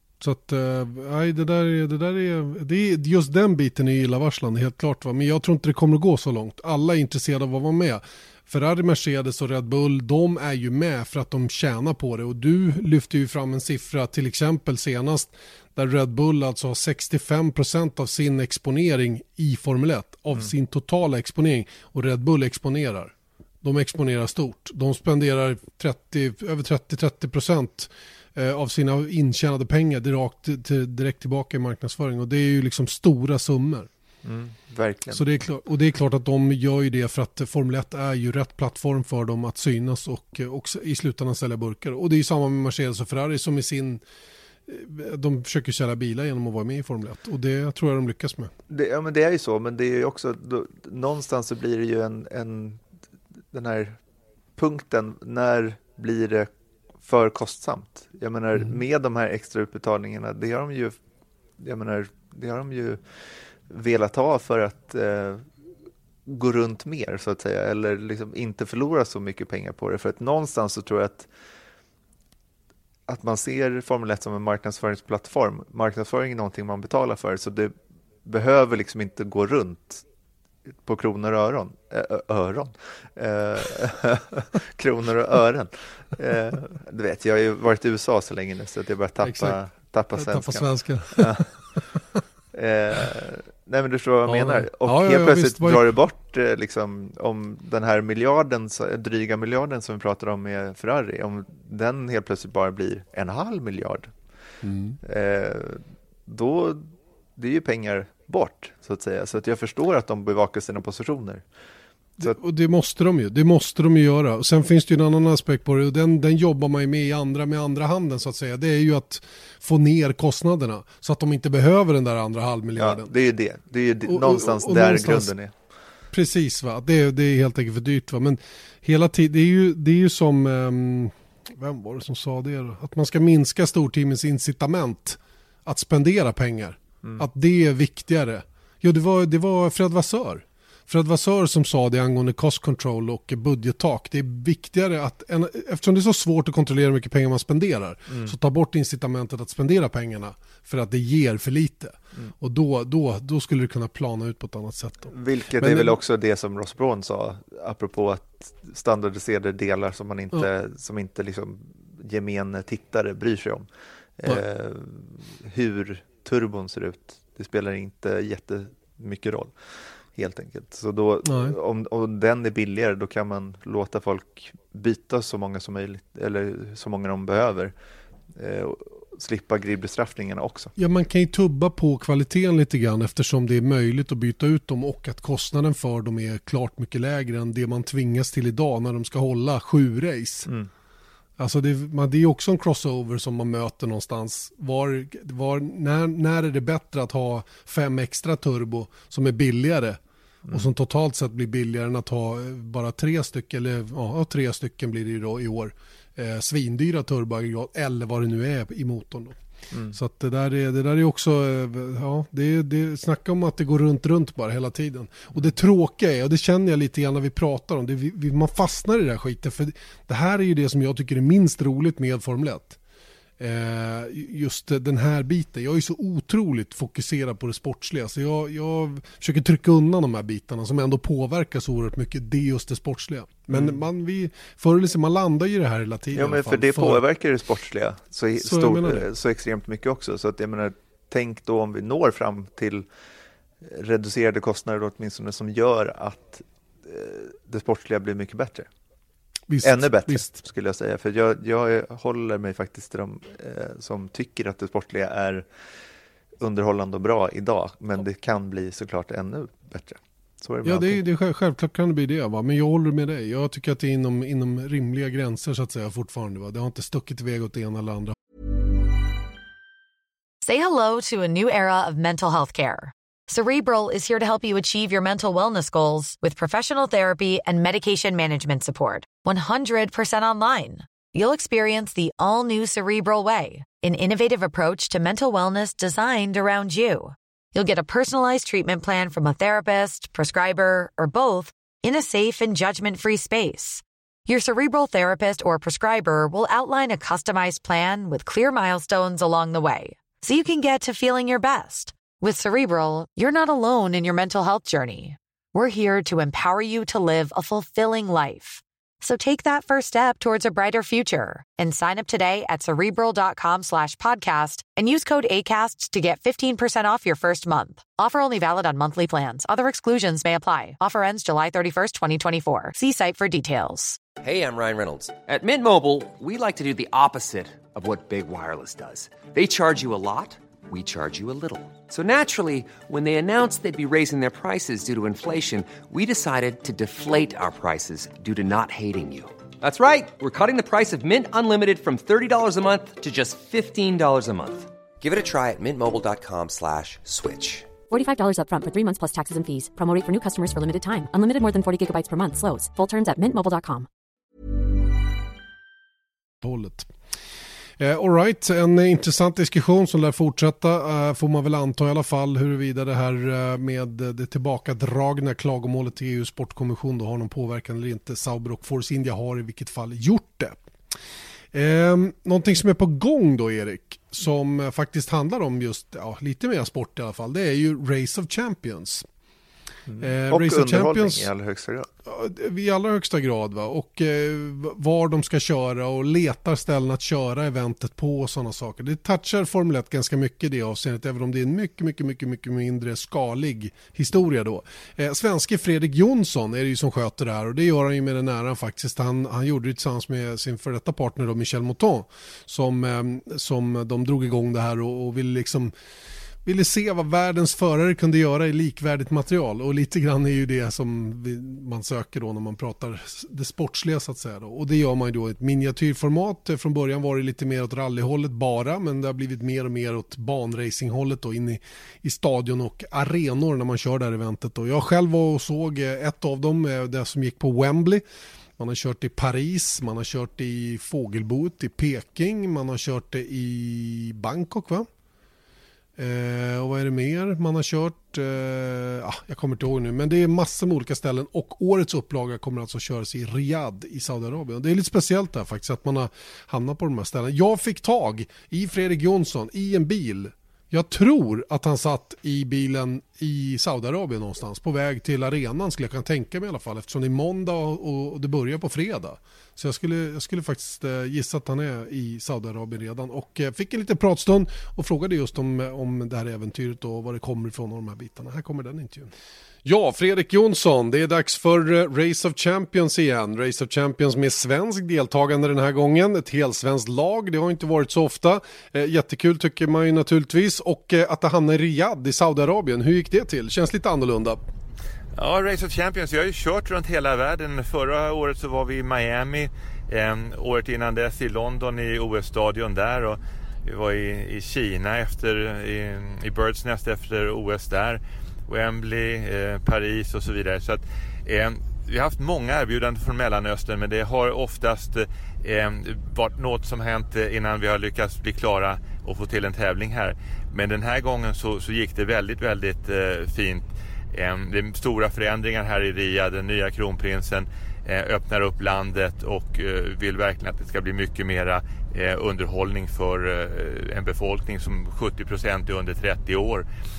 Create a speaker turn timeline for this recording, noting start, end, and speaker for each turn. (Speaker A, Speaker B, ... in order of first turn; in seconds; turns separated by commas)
Speaker A: 0.2-33.9, Speaker B: 34.2-35.2, Speaker A: 35.1-44.0, Speaker A: 44.7-48.5, Speaker B: 48.7-52.8, Speaker B: 53.5-54.0, Speaker B: 54.6-56.5, Speaker B: 57.0-61.0, Speaker B: 61.6-65.5, Speaker B: 66.3-71.3, Speaker B: 73.1-77.7, Speaker B: 78.3-80.0, Speaker B: 80.8-91.5, Speaker A: 89.2-89.6, Speaker A: 90.2-92.2, Speaker B: 92.5-104.1, Speaker A: 94.3-95.9, Speaker A: 104.6-105.0, Speaker B: 105.0-111.5, Speaker A: 112.2-123.1, Speaker B: 122.8-125.5, Speaker A: 124.1-125.3, Speaker A: 126.1-156.0, Speaker B: 148.1-148.3, Speaker B: 155.1-163.7, Speaker B: 164.2-169.6, Speaker B: 170.1-177.7, Speaker A: 171.3-171.6, Speaker B: 178.3-180.7, Speaker A: 180.8-190.5, Speaker A: 191.4-200.0, Speaker B: 200.4-200.7, Speaker A: 200.5-209.4, Speaker B: 209.7-210.0, Speaker A: 209.9-222.8, Speaker A: 223.4-237.0, Speaker B: 236.1-242.9, Speaker A: 238.4-239.1, Speaker B: 243.6-248.7, Speaker A: 249.5-250.4, Speaker B: 249.6-255.5, Speaker B: 256.4-261.0, Speaker A: 260.6-268.1, Speaker C: 270.4-324.0, Speaker D: 324.2-347.7, Speaker E: 347.9-353.9, Speaker A: 356.4-356.9, Speaker A: 357.8-370.6, Speaker A: 371.5-379.1, Speaker B: 379.9-381.9, Speaker A: 380.0-381.3, Speaker A: 382.1-405.7, Speaker A: 406.4-428.0, Speaker A: 428.6-434.9, Speaker A: 436.0-469.1, Speaker A: 469.6-484.4, Speaker F: 485.1-526.6